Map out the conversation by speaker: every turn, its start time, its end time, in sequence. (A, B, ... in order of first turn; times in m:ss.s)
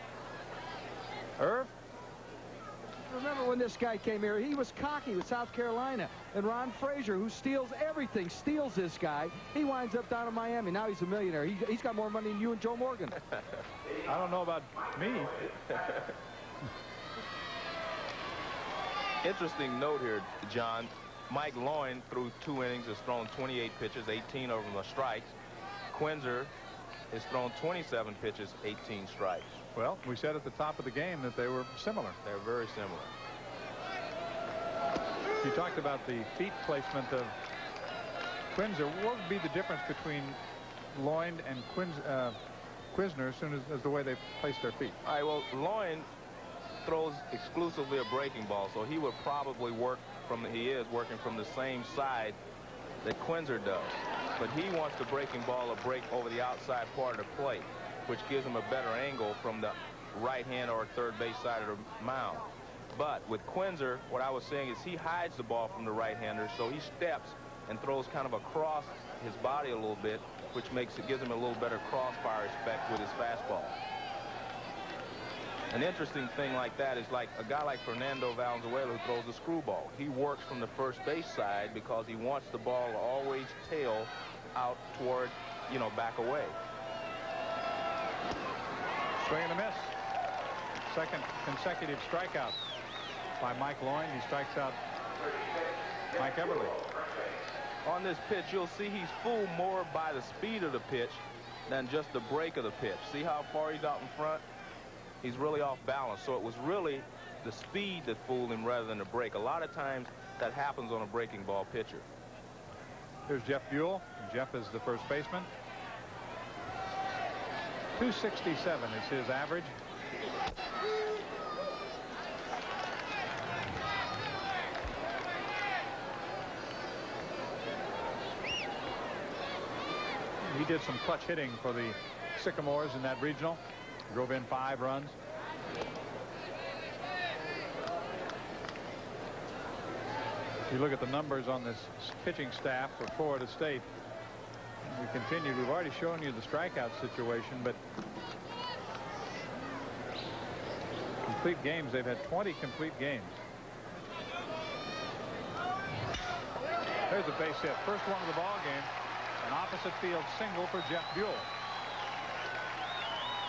0:01.4-0:01.7 A
0:03.1-0:13.2 B
0:14.1-0:15.5 A
0:19.2-0:25.3 C
0:25.9-0:26.5 C
0:27.1-0:29.6 C
0:29.8-0:32.2 A
0:32.2-0:33.1 C
0:35.4-0:37.3 A
0:38.5-0:40.4 A
0:40.9-0:42.4 A
0:42.9-0:45.0 A
0:45.0-0:46.1 C
0:46.8-0:52.4 C
0:53.0-1:13.8 C
1:15.7-1:26.6 C
1:29.2-1:29.9 A
1:30.9-1:32.6 A
1:33.4-1:34.8 A
1:36.2-1:36.8 A
1:37.8-1:44.4 C
1:45.2-1:52.1 C
1:53.3-1:55.5 A
1:58.0-1:59.8 A
2:10.4-2:15.2 A
2:20.7-2:23.9 A
2:24.8-2:27.8 A
2:31.3-2:33.4 A
2:37.1-2:38.9 A
2:39.4-2:41.5 A